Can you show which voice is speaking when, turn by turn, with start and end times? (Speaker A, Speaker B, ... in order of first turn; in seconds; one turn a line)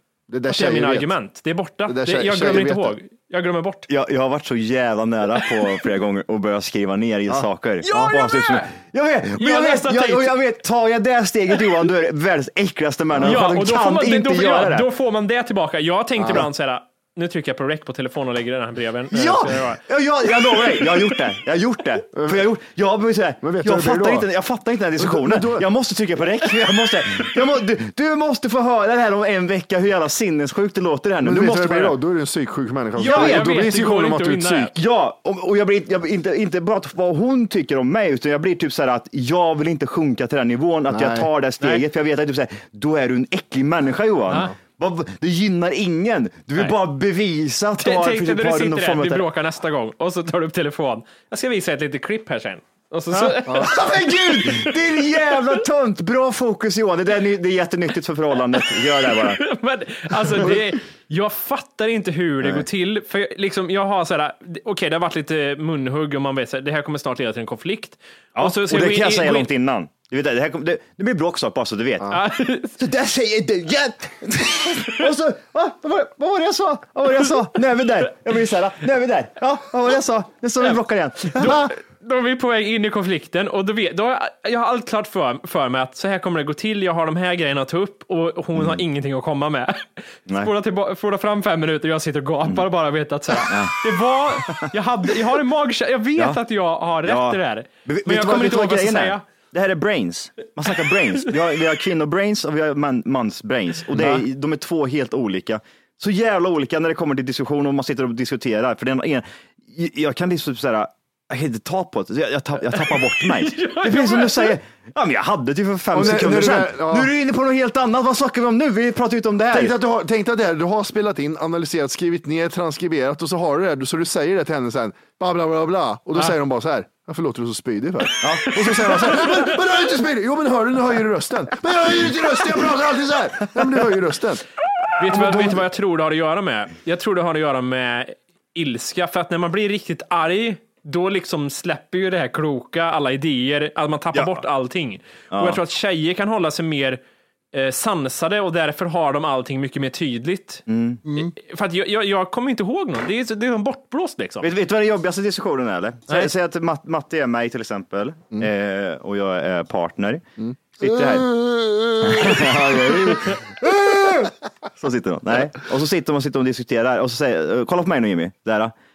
Speaker A: 0.3-1.1
Speaker B: 0.5-3.9
Speaker A: 1.9-2.9
Speaker C: 3.9-14.9
Speaker A: 7.3-8.2
Speaker B: 7.8-8.6
Speaker B: 9.4-10.3
Speaker A: 13.1-13.4
Speaker B: 13.2-19.8
Speaker A: 16.2-16.5
Speaker C: 19.1-32.0
Speaker A: 22.2-22.4
Speaker A: 23.4-24.3
Speaker A: 25.0-25.6
Speaker A: 31.2-34.7
Speaker B: 33.0-34.7
Speaker C: 33.0-33.5
Speaker C: 34.7-49.2
Speaker A: 40.9-41.3
Speaker B: 47.8-54.7
Speaker C: 53.1-59.4
Speaker B: 59.1-69.5
Speaker C: 62.4-62.7
Speaker C: 68.3-72.2
Speaker B: 72.1-72.8
Speaker C: 72.8-81.7
Speaker B: 81.3-99.2
Speaker C: 88.5-88.8
Speaker C: 93.5-93.8
Speaker C: 96.2-96.4
Speaker C: 97.0-119.8
Speaker B: 112.7-114.5
Speaker A: 115.9-117.1
Speaker A: 119.5-134.4
Speaker C: 128.2-129.1
Speaker B: 135.0-147.0
Speaker A: 135.0-135.6
Speaker C: 144.1-144.4
Speaker C: 145.3-145.6
Speaker B: 147.5-150.6
Speaker C: 150.7-151.0
Speaker B: 151.1-154.5
Speaker C: 154.4-160.2
Speaker A: 160.4-163.4
Speaker C: 160.8-161.3
Speaker C: 162.0-168.7